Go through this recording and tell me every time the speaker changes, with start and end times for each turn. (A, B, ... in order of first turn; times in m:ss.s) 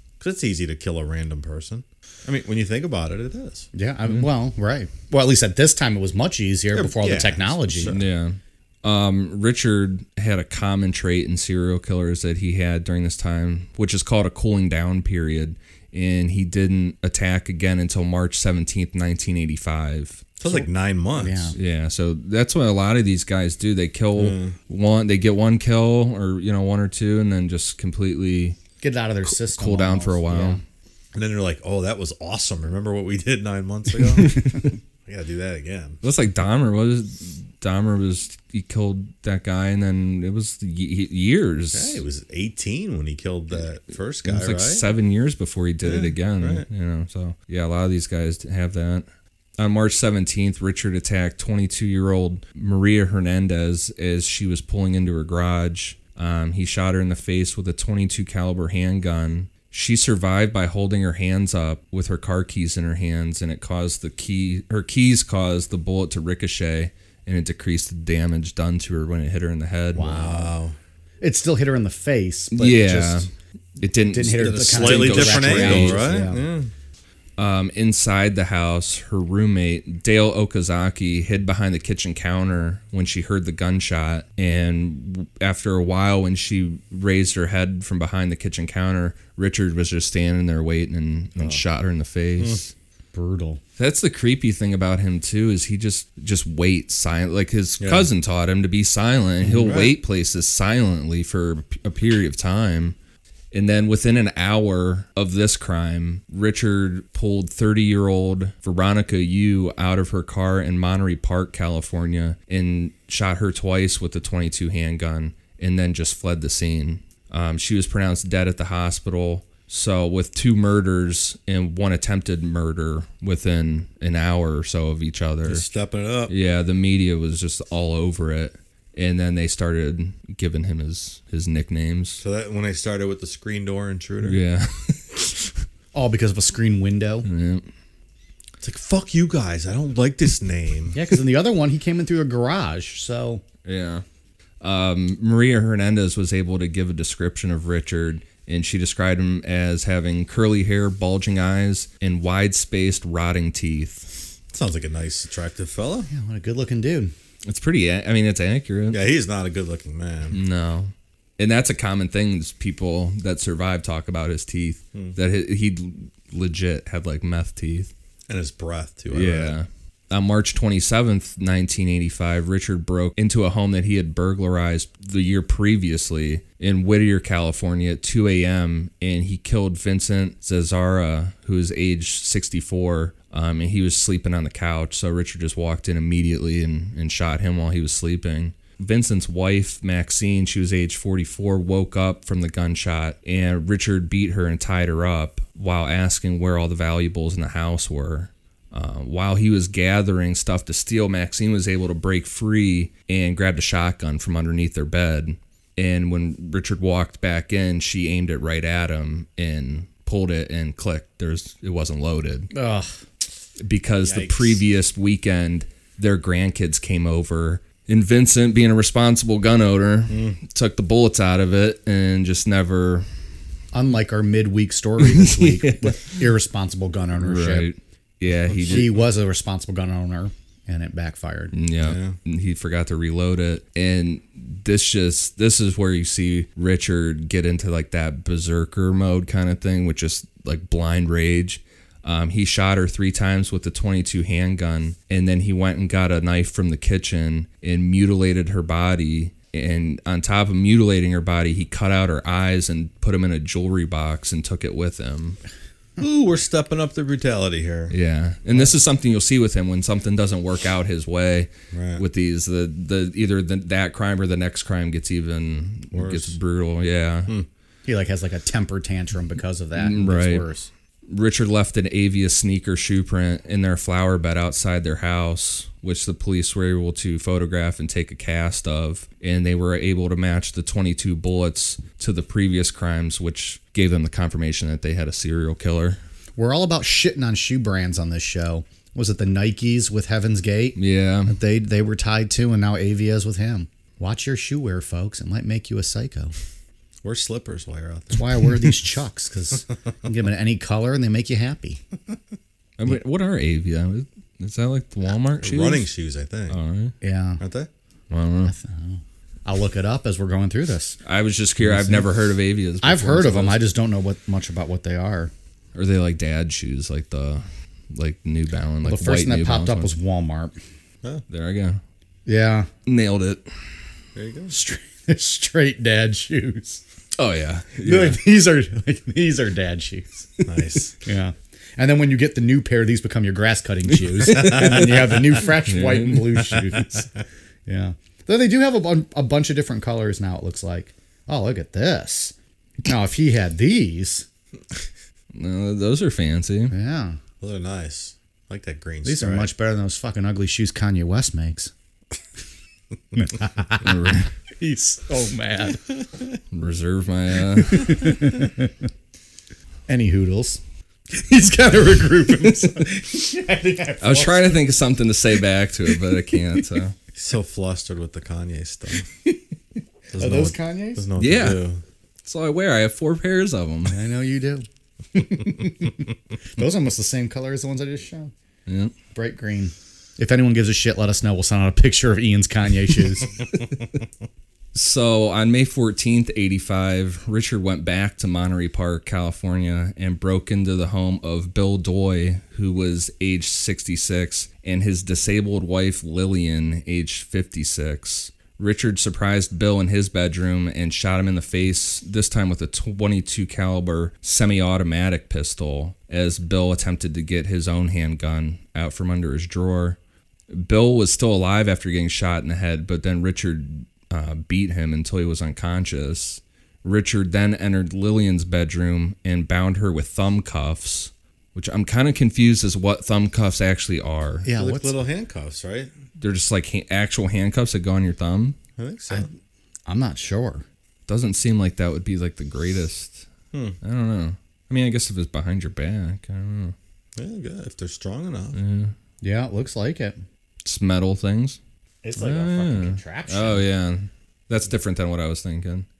0:00.2-0:03.7 A
0:03.7-0:08.0 B
0:06.7-0:08.0 A
0:07.9-0:20.3 C
0:20.4-0:21.5 A
0:20.4-0:21.6 B
0:21.5-0:28.6 C
0:24.2-0:24.6 A
0:28.8-0:30.6 B
0:29.2-0:30.6 C
0:31.1-0:34.5 A
0:34.1-0:34.7 C
0:35.0-0:36.0 A
0:36.0-0:42.0 C
0:41.7-0:44.8 A
0:44.2-0:49.0 C
0:45.8-0:46.6 A
0:49.6-1:10.2 C
1:09.9-1:10.5 B
1:10.0-1:10.8 A
1:11.2-1:13.3 B
1:12.5-1:13.3 C
1:13.8-1:16.1 C
1:14.1-1:16.4 B
1:14.4-1:16.7 A
1:17.4-1:32.7 C
1:33.1-1:33.6 B
1:33.8-1:43.0 C
1:37.8-1:38.1 A
1:39.4-1:40.0 A
1:43.5-2:05.6 C
2:05.4-2:06.3 A
2:06.3-2:12.2 C
2:12.2-2:14.4 A
2:14.2-2:15.5 C
2:15.9-2:17.2 B
2:17.2-2:17.7 C
2:18.6-2:21.0 A
2:20.9-2:23.4 B
2:23.6-2:24.0 C
2:24.6-2:34.1 C
2:34.5-2:36.1 A
2:36.1-2:37.1 B
2:37.4-2:39.0 C
2:38.9-2:40.4 A
2:40.3-2:47.9 C
2:48.3-2:49.6 A
2:49.1-3:32.5 C
3:32.5-3:33.0 B
3:33.6-3:43.1 C
3:34.0-3:34.5 B
3:40.1-3:40.4 A
3:43.7-3:47.7 B
3:45.0-3:46.2 C
3:47.2-3:49.0 C
3:48.5-3:49.0 A
3:48.7-3:51.5 B
3:51.5-4:15.4 C
3:51.8-3:52.2 A
4:16.0-4:17.9 A
4:17.9-4:27.3 C
4:21.7-4:22.0 A
4:25.9-4:26.4 A
4:27.8-4:30.7 B
4:29.8-4:30.4 C
4:31.1-4:46.0 C
4:46.4-4:56.3 B
4:50.8-4:51.3 C
4:57.0-4:58.5 A
4:58.1-5:01.8 B
5:02.8-5:05.9 C
5:05.4-5:06.6 A
5:06.5-5:06.9 C
5:07.0-5:07.4 B
5:07.4-5:07.7 A
5:08.1-5:08.5 C
5:08.4-5:11.0 B
5:11.0-5:13.6 C
5:11.6-5:12.1 B
5:12.8-5:15.3 B
5:15.7-5:19.9 C
5:18.8-5:20.5 B
5:21.3-5:21.8 C
5:22.2-5:22.7 B
5:22.8-5:23.4 C
5:24.1-5:24.5 A
5:24.5-5:26.8 B
5:27.2-5:28.2 C
5:27.8-5:30.5 B
5:30.4-5:31.0 A
5:31.0-5:37.1 B
5:34.2-5:36.6 C
5:34.3-5:34.8 A
5:37.7-5:42.3 B
5:42.8-5:44.3 B
5:45.3-5:46.7 C
5:46.7-5:47.2 B
5:47.4-5:49.5 A
5:49.0-5:51.7 B
5:53.1-5:55.8 B
5:53.8-5:54.2 C
5:56.5-5:58.2 C
5:57.6-5:58.7 B
5:59.9-6:00.6 B
6:01.1-6:04.6 B
6:04.0-6:06.9 C
6:07.1-6:09.1 A
6:10.1-6:11.8 A
6:10.2-6:11.1 B
6:11.2-6:11.7 C
6:12.2-6:14.0 C
6:13.9-6:18.3 B
6:18.7-6:18.9 C
6:19.1-6:23.3 B
6:24.7-6:50.0 C
6:50.5-7:04.5 C
7:04.4-7:05.0 B
7:04.6-7:05.9 A
7:06.2-7:08.6 C
7:08.8-7:09.3 A
7:09.9-7:10.6 B
7:11.1-7:13.3 C
7:13.8-7:16.7 C
7:17.2-7:18.6 A
7:18.5-7:18.9 C
7:19.2-7:20.2 B
7:20.6-7:21.6 C
7:22.0-7:23.6 B
7:22.2-7:25.8 C